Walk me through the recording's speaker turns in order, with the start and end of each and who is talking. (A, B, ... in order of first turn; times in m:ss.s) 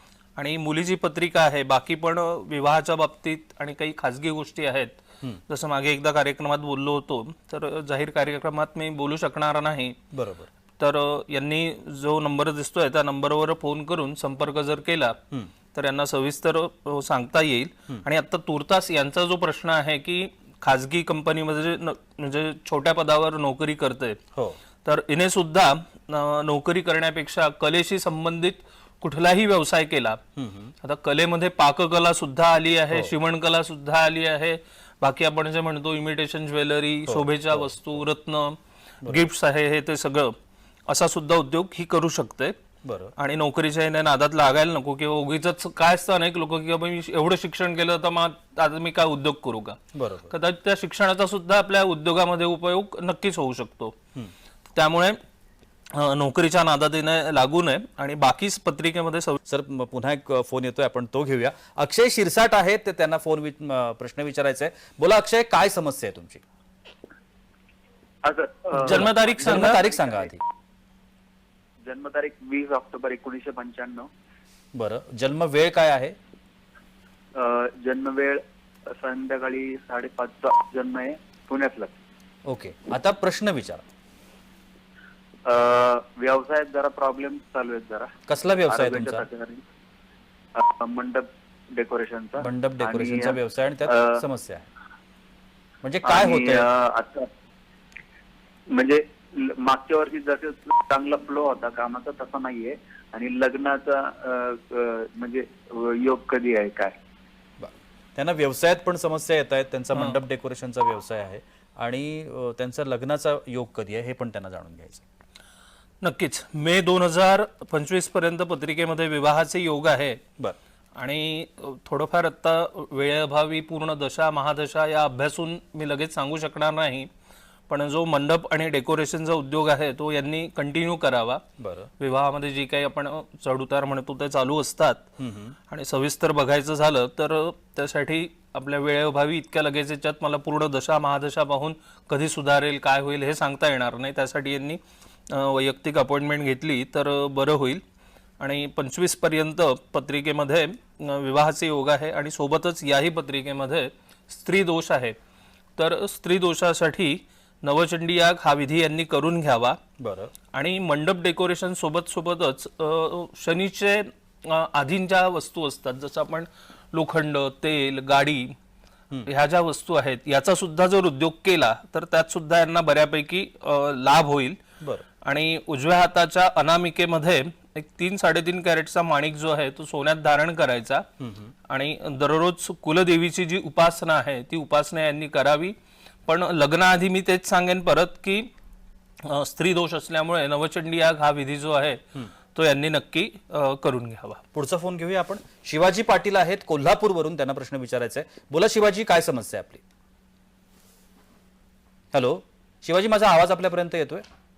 0:00.4-0:05.0 A
0:05.5-0:10.0 A
0:10.1-0:10.5 B
0:10.8-0:15.2 A
0:15.7-0:24.2 A
0:24.3-0:24.6 B
0:24.8-0:30.2 A
0:30.4-0:30.7 B
0:30.8-0:40.3 A
0:37.1-0:38.0 B
0:40.9-0:42.6 A
0:42.8-0:43.1 B
0:43.2-0:49.8 A
0:49.9-0:50.3 B
0:50.3-0:54.0 A
0:54.7-0:55.2 A
0:55.9-0:59.4 A
0:59.5-1:06.4 B
1:08.2-1:10.3 C
1:08.7-1:09.8 A
1:08.8-1:10.4 B
1:11.8-1:14.1 C
1:14.7-1:16.2 B
1:17.4-1:21.9 C
1:22.4-1:23.8 B
1:25.4-1:28.1 C
1:28.3-1:29.2 B
1:28.7-1:29.6 C
1:30.5-1:34.2 C
1:32.4-1:34.6 B
1:35.8-1:36.6 B
1:36.0-1:37.3 C
1:38.7-1:46.9 C
1:47.6-1:55.0 B
1:56.0-2:00.2 A
2:01.0-2:07.1 A
2:07.7-2:11.4 A
2:11.6-2:11.9 B
2:12.0-2:15.1 A
2:15.2-2:15.6 B
2:15.7-2:27.8 A
2:28.4-2:35.2 A
2:35.8-2:39.8 A
2:40.0-2:40.3 B
2:40.5-2:48.5 A
2:49.2-2:54.6 A
2:54.8-2:55.0 B
2:55.2-3:01.0 A
3:01.2-3:01.5 B
3:01.7-3:05.7 A
3:06.3-3:08.5 A
3:09.2-3:12.0 A
3:12.5-3:14.4 A
3:14.5-3:19.8 B
3:22.1-3:24.2 B